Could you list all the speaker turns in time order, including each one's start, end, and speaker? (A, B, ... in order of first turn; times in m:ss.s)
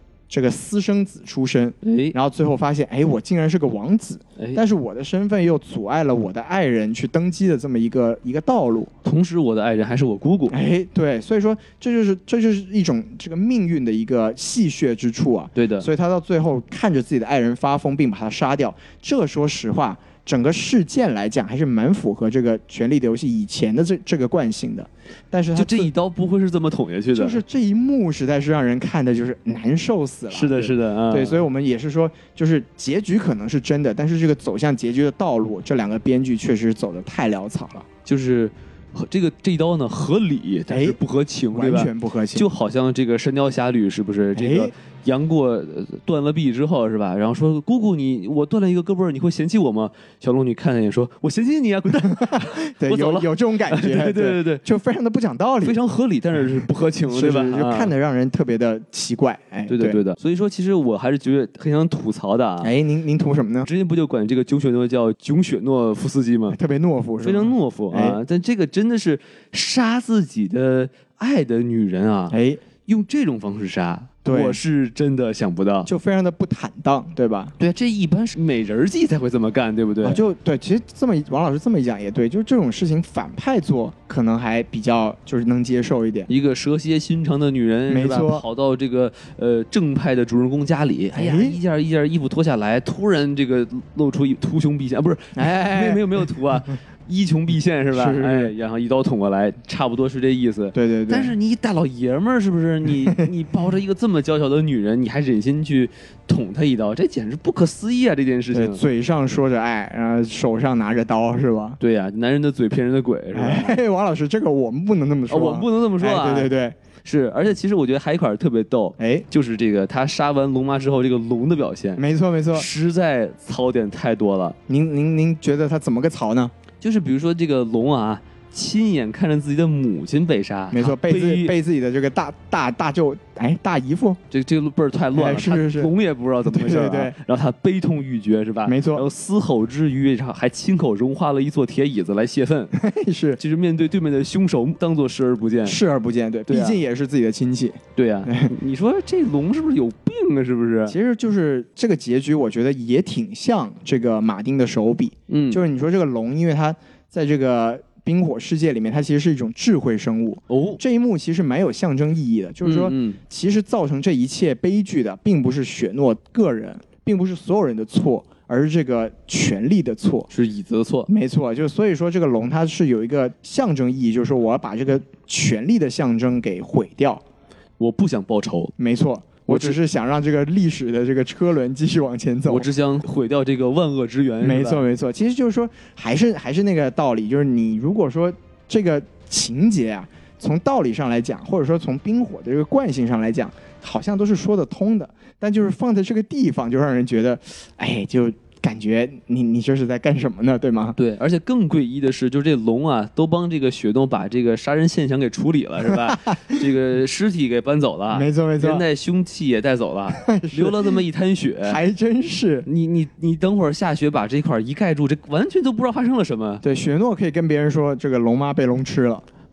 0:00.3-0:08.9 A
0:01.8-0:02.1 B
0:09.0-0:10.6 B
0:10.5-0:25.9 A
0:15.5-0:15.9 B
0:25.5-0:27.4 B
0:27.1-0:37.8 A
0:30.3-0:31.4 B
0:38.0-0:54.6 B
0:40.7-0:41.0 A
0:41.5-0:42.5 A
0:44.3-0:44.7 A
0:52.1-0:55.8 A
0:55.6-0:57.9 B
0:57.1-1:00.0 A
0:59.7-1:02.7 B
1:02.6-1:03.7 A
1:03.6-1:06.6 B
1:06.5-1:08.2 A
1:07.2-1:15.9 B
1:12.3-1:12.6 A
1:14.2-1:14.6 A
1:15.8-1:17.5 A
1:17.6-1:20.2 B
1:20.0-1:26.3 A
1:26.3-1:48.8 B
1:27.9-1:28.4 A
1:31.1-1:31.6 A
1:35.4-1:36.3 A
1:37.9-1:38.5 A
1:40.7-1:41.3 A
1:48.5-1:51.8 A
1:51.8-1:53.8 B
1:53.3-1:56.8 A
1:55.3-1:56.5 B
1:57.0-2:04.6 B
1:59.0-1:59.2 A
2:02.0-2:02.7 A
2:04.7-2:06.5 A
2:06.8-2:11.5 B
2:10.7-2:14.2 A
2:14.3-2:22.8 B
2:15.1-2:15.9 A
2:16.4-2:17.1 A
2:18.6-2:19.0 A
2:22.7-2:23.4 A
2:23.4-2:25.8 B
2:25.6-2:28.5 A
2:26.5-2:26.8 B
2:28.0-2:31.0 B
2:30.9-2:50.3 A
2:35.3-2:35.6 B
2:40.5-2:40.8 B
2:42.6-2:43.2 B
2:50.3-2:51.1 B
2:51.1-2:57.2 A
2:57.8-2:58.7 B
2:58.8-3:02.7 A
2:59.5-2:59.8 B
3:02.5-3:04.8 B
3:04.4-3:21.0 A
3:21.0-3:31.8 B
3:25.8-3:26.6 A
3:28.1-3:28.8 A
3:30.2-3:31.0 A
3:31.6-3:32.7 A
3:32.6-3:36.6 B
3:36.6-3:39.2 A